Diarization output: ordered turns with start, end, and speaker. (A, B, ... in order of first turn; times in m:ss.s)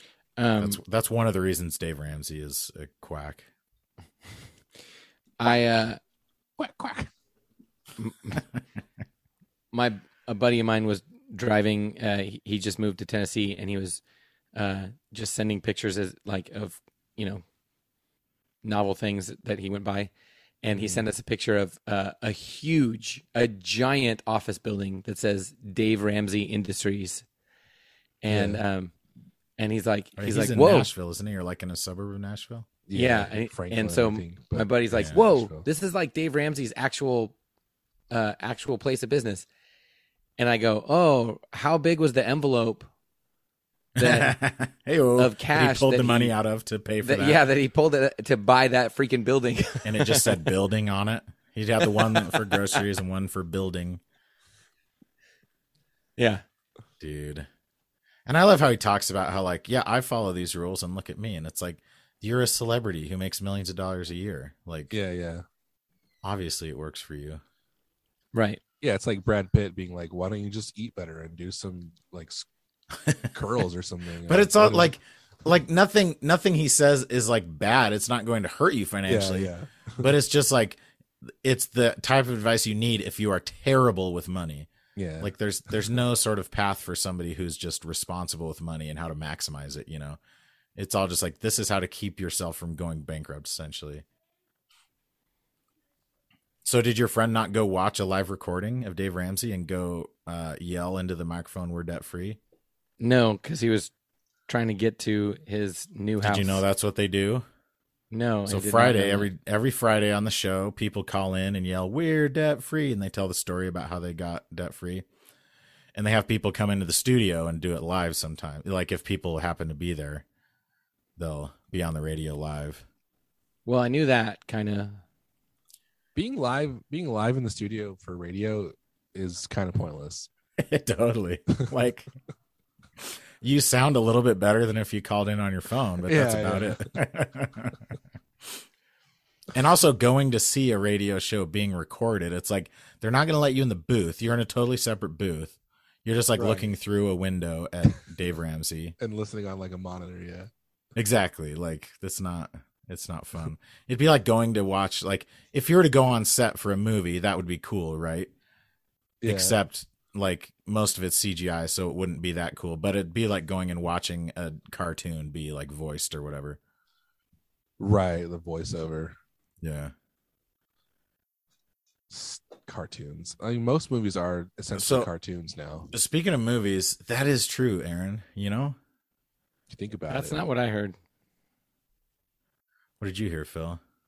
0:00.4-0:00.8 A
0:00.6-0:03.4 B
0:05.4-0:06.0 A
0:06.6-0:07.1 C
0:08.0-0:08.4 A
0:09.7-0:14.0 A
0:14.5-0:17.4 A
0:18.6-0:20.1 A
0:20.6-0:27.2 A
0:20.7-0:21.0 C
0:28.2-0:28.9 A
0:28.3-0:28.6 C
0:29.6-0:30.9 A
0:30.2-0:32.7 B
0:32.9-0:35.7 C
0:32.9-0:37.3 A
0:34.9-0:35.2 B
0:38.1-0:39.4 A
0:40.4-0:42.9 A
0:44.0-0:47.4 B
0:44.0-0:44.4 A
0:45.2-0:46.3 A
0:47.0-0:50.4 A
0:49.8-0:54.0 B
0:51.8-0:52.8 A
0:56.2-0:56.4 A
0:57.0-0:57.5 B
0:58.2-1:04.9 B
1:04.9-1:05.4 C
1:06.2-1:07.4 B
1:08.3-1:08.6 A
1:08.8-1:12.5 C
1:13.3-1:14.9 C
1:14.3-1:20.8 B
1:19.1-1:20.1 C
1:21.4-1:24.7 B
1:25.0-1:25.3 C
1:25.2-1:30.2 B
1:30.8-1:34.0 B
1:36.6-1:42.4 B
1:43.0-1:43.9 A
1:44.5-1:46.6 A
1:46.2-1:47.4 B
1:48.1-1:49.3 A
1:48.5-1:55.0 B
1:55.9-2:00.2 B
2:01.2-2:02.8 B
2:03.6-2:05.0 A
2:06.1-2:10.3 C
2:10.6-2:12.1 B
2:13.0-2:17.8 B
2:16.0-2:16.9 C
2:19.5-2:29.0 B
2:26.4-2:26.7 C
2:29.0-2:30.5 C
2:30.9-2:38.3 B
2:39.2-2:39.6 C
2:39.2-2:46.6 B
2:47.8-2:49.2 C
2:49.6-2:49.9 B
2:52.1-2:55.9 C
2:54.7-2:55.1 B
2:55.9-2:58.8 B
2:59.7-3:00.4 C
3:00.1-3:01.0 A
3:03.0-3:03.8 B